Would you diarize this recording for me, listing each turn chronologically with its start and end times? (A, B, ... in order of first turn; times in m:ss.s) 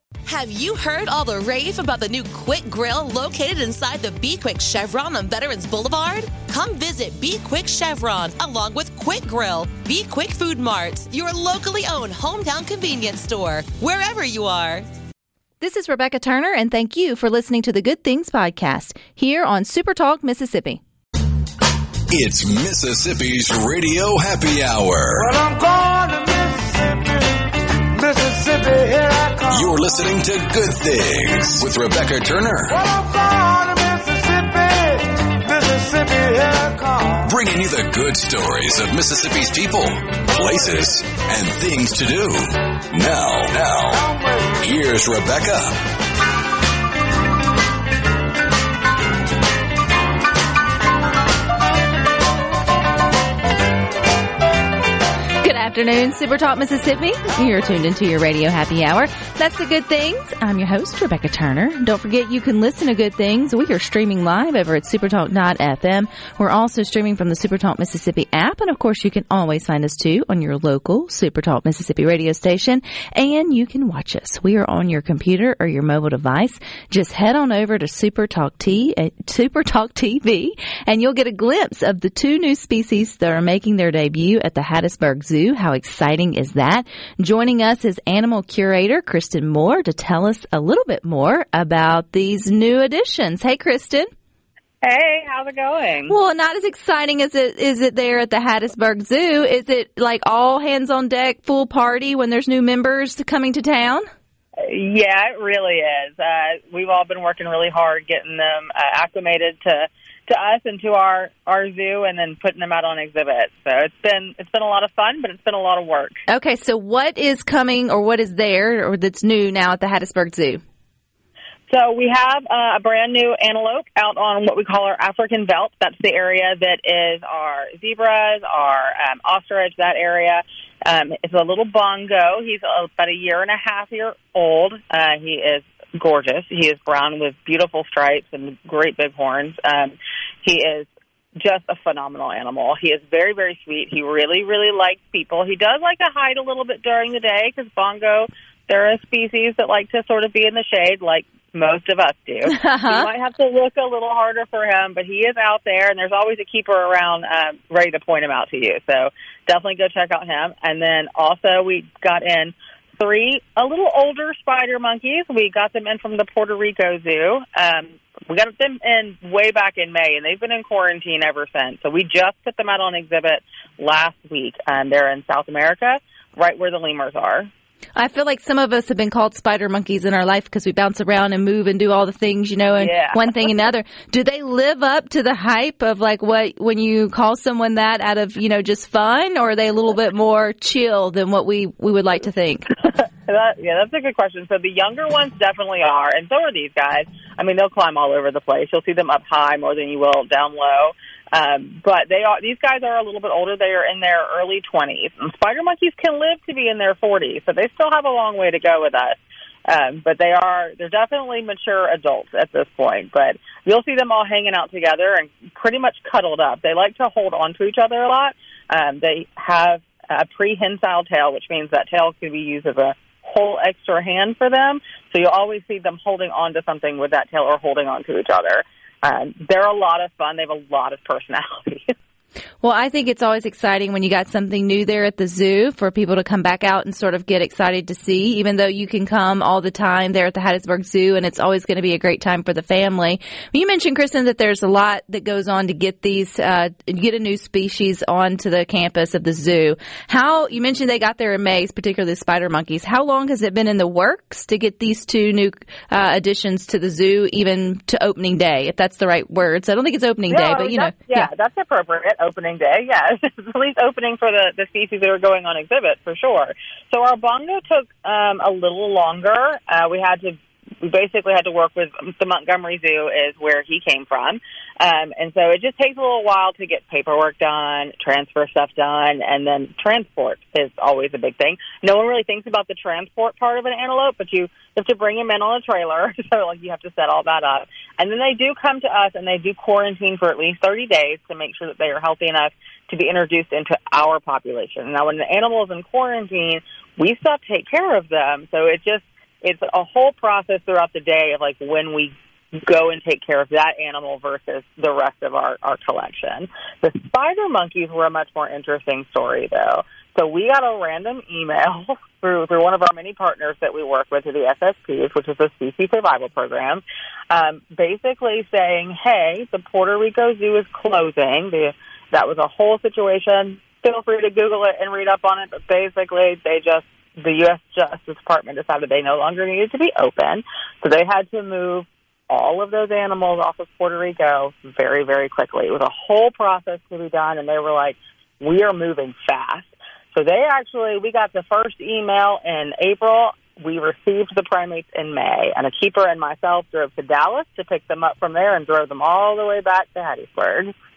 0:00.3-0:14.9 A
0:15.6-0:20.8 B
0:22.1-0:25.4 C
0:25.2-0:27.3 D
0:28.0-0:29.7 D
0:29.5-0:32.8 C
0:32.7-0:37.2 D
0:37.2-0:45.8 C
0:55.4-1:34.1 B
1:34.8-1:36.2 E
1:36.1-1:44.1 B
1:44.6-1:56.2 E
1:56.3-2:00.6 B
2:01.7-2:57.5 E
2:32.5-2:33.1 B
2:58.0-3:12.9 B
3:02.8-3:03.5 E
3:13.2-3:52.0 E
3:52.6-4:21.3 B
4:20.3-5:50.7 E